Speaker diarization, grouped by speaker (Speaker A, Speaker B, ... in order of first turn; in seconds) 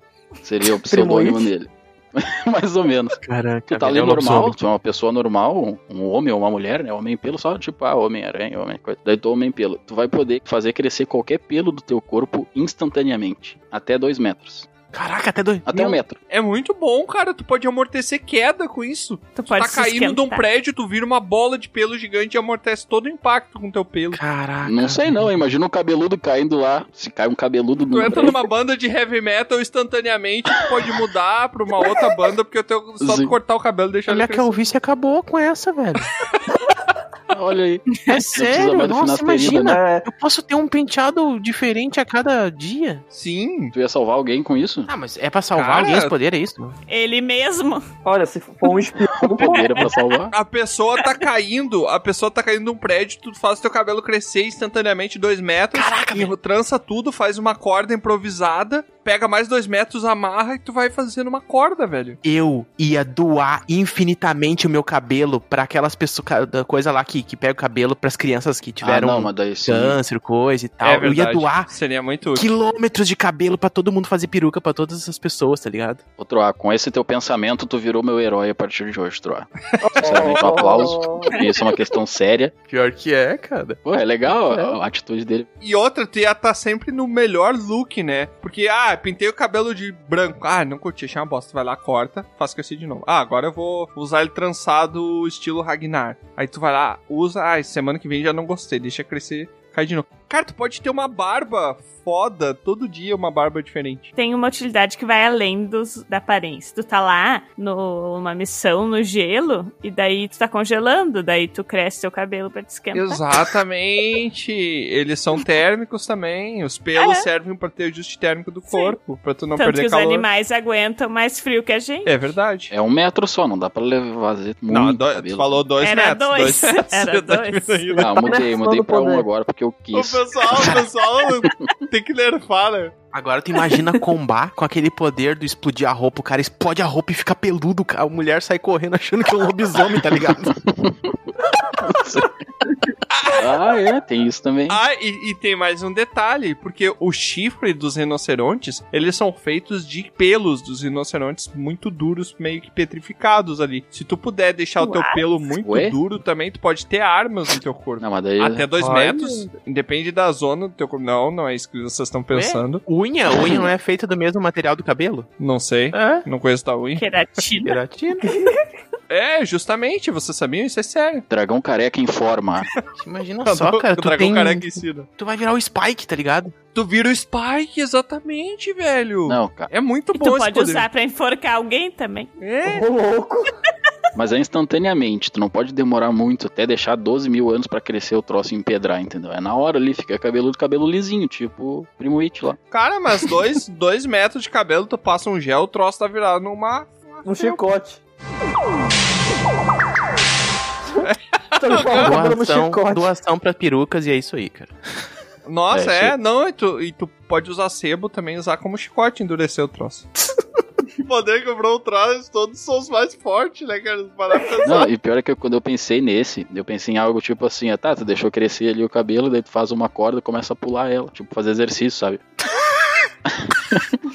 Speaker A: 0.4-14.7, 15.7-16.2, 24.6-28.5, 33.0-33.4, 37.3-39.8, 43.7-44.9, 49.1-50.3, 68.8-70.0, 76.2-82.5, 83.8-85.5, 122.7-125.6, 128.0-130.7, 140.1-141.1, 141.8-142.3, 143.3-144.8, 155.6-156.0, 158.0-158.7, 163.3-163.7, 171.3-172.7, 179.2-179.7, 184.1-192.6, 205.7-206.2, 214.6-222.2, 223.3-223.9
Speaker B: 0.8-1.5, 39.6-40.0, 48.0-50.0, 79.8-81.4, 128.0-129.3, 182.6-183.5, 197.2-198.0, 201.6-203.1
Speaker C: 3.2-4.6, 14.9-16.0, 24.1-25.4, 34.1-36.1, 38.0-43.0, 44.9-46.7, 55.7-56.3, 62.2-71.7, 72.3-76.0, 82.7-84.7, 133.1-140.5, 158.7-159.5, 162.3-165.3, 165.9-166.2, 167.6-168.3, 173.0-176.5, 202.0-204.7
Speaker D: 16.3-24.2, 27.9-34.5, 43.1-43.7, 45.5-46.1, 50.3-62.2, 70.8-72.5, 85.6-104.1, 112.9-120.2, 122.0-122.7, 124.7-128.3, 129.9-132.9, 143.1-143.6, 144.7-162.8, 165.4-167.0, 169.1-171.2, 173.4-175.1, 176.7-180.9, 182.4-182.8, 192.7-197.6, 201.0-202.2, 205.4-210.1, 211.0-214.9
Speaker E: 19.4-20.4, 46.9-47.8, 104.2-113.2, 117.0-117.2, 118.7-119.0, 119.5-122.1, 125.8-127.8, 154.8-155.2, 166.9-167.8, 180.1-182.3